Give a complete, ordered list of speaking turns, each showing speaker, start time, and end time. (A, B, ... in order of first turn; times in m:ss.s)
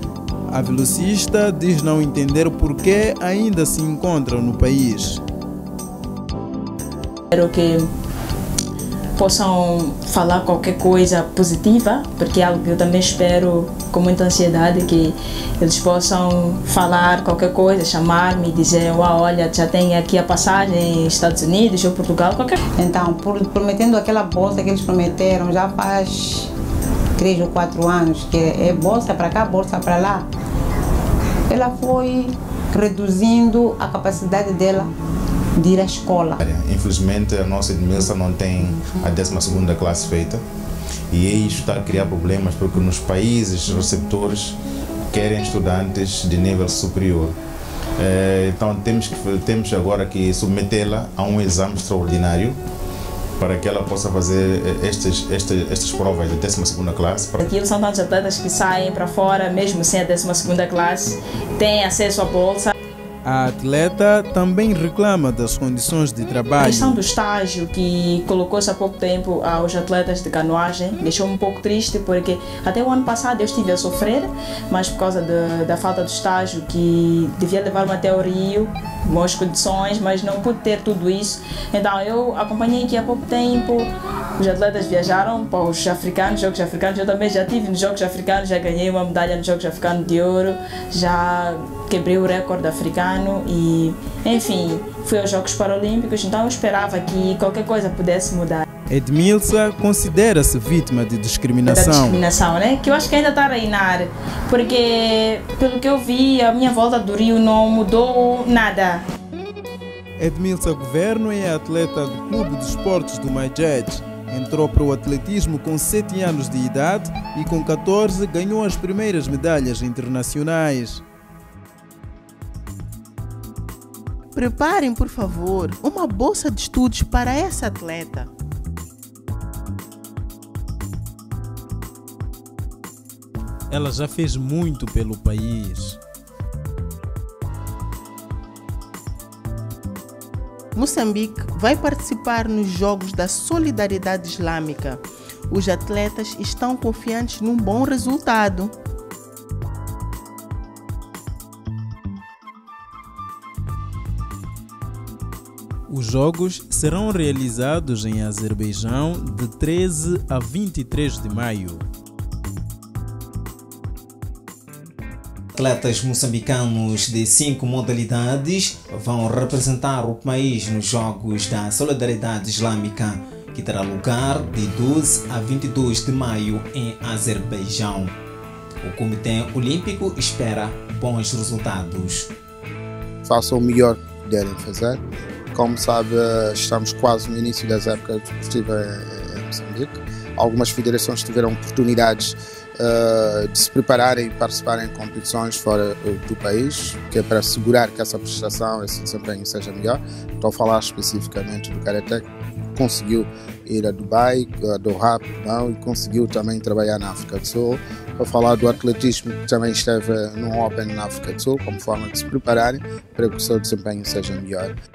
0:00.5-0:05.2 A
0:07.3-0:07.9 B
0:09.2-0:22.6 B
0:22.8-0:26.5 C
0:27.2-0:30.3 C
0:31.5-0:34.9 C
0:35.6-0:36.4 C
0:36.4-0:40.4 D
0:41.1-0:44.6 D
0:45.1-0:47.4 D
0:48.0-0:52.6 D
0:53.4-0:57.4 D
0:57.4-1:02.7 B
1:03.2-1:07.0 A
1:06.6-1:38.6 B
1:38.9-1:42.2 A
1:41.6-1:49.0 B
1:50.2-2:01.0 A
2:04.3-2:08.3 E
2:13.7-2:16.0 A
2:20.7-2:28.7 E
2:35.9-2:41.8 A
2:45.5-2:58.1 F
2:58.8-3:02.3 F
3:03.2-3:05.0 G
3:05.5-3:34.8 G